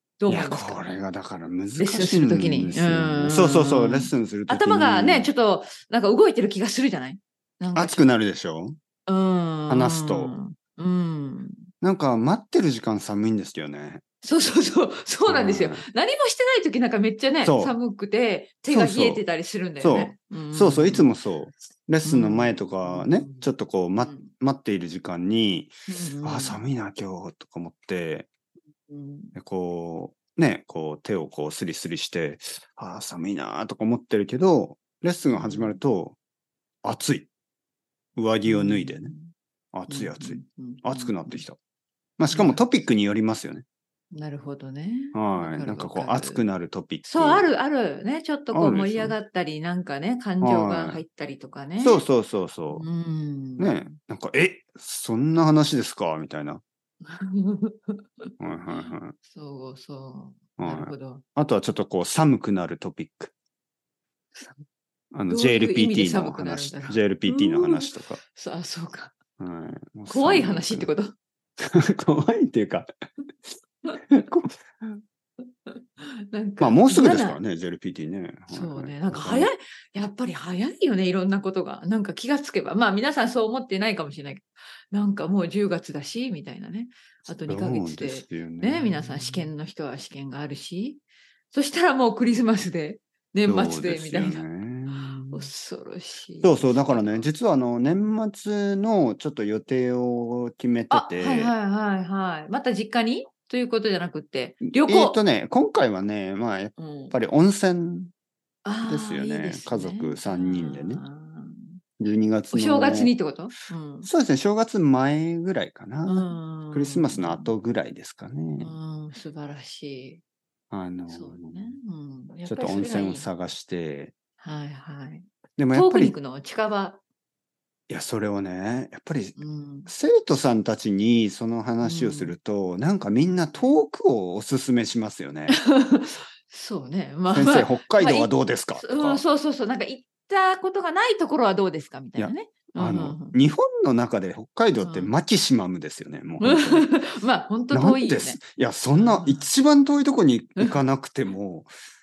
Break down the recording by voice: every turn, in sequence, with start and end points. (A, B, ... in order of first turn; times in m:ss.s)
0:00.2-0:00.9 A
0:00.3-0:05.3 B
0:01.8-0:08.0 A
0:07.7-0:08.8 B
0:09.0-0:11.6 A
0:09.7-0:10.3 B
0:11.8-0:14.0 B
0:14.2-0:21.1 A
0:15.3-0:15.8 B
0:17.4-0:17.8 B
0:18.7-0:19.2 B
0:19.8-0:28.3 B
0:22.0-0:23.5 A
0:24.0-0:24.3 A
0:25.9-0:26.6 A
0:28.9-0:29.3 A
0:29.3-0:36.2 B
0:35.3-0:35.7 A
0:36.8-0:37.3 B
0:38.2-0:39.1 B
0:38.5-0:39.3 A
0:39.7-0:41.6 B
0:39.9-0:41.4 A
0:42.2-0:43.6 B
0:42.3-0:42.6 A
0:44.1-0:46.4 A
0:45.1-0:47.5 B
0:47.0-0:52.0 A
0:48.5-0:49.2 B
0:50.4-0:51.0 B
0:51.8-0:52.9 B
0:52.7-0:53.8 A
0:53.6-0:56.6 B
0:57.0-1:01.2 A
0:58.4-0:59.2 B
1:00.6-1:03.3 B
1:04.4-1:04.6 A
1:05.1-1:08.2 B
1:05.3-1:09.1 A
1:09.4-1:10.9 B
1:10.1-1:11.1 A
1:11.6-1:12.9 B
1:14.1-1:14.5 B
1:15.7-1:17.4 A
1:16.6-1:19.5 B
1:18.5-1:34.4 A
1:27.5-1:29.5 B
1:33.4-1:35.5 B
1:35.3-1:37.3 A
1:36.4-1:41.5 B
1:40.9-1:45.2 A
1:44.6-1:48.1 B
1:46.8-1:47.1 A
1:48.6-1:51.8 A
1:48.8-1:51.0 B
1:52.0-1:53.1 B
1:52.5-1:54.1 A
1:54.0-1:58.7 B
1:56.0-1:57.5 A
1:58.6-2:00.2 A
2:00.7-2:01.6 B
2:01.1-2:03.3 A
2:02.4-2:04.1 B
2:04.4-2:07.0 A
2:05.6-2:06.1 B
2:07.9-2:09.4 B
2:09.4-2:09.9 A
2:09.9-2:15.6 B
2:11.8-2:12.4 A
2:15.5-2:23.4 A
2:17.3-2:19.2 B
2:22.2-2:26.9 B
2:24.8-2:25.1 A
2:26.4-2:28.4 A
2:27.7-2:31.7 B
2:28.9-2:29.5 A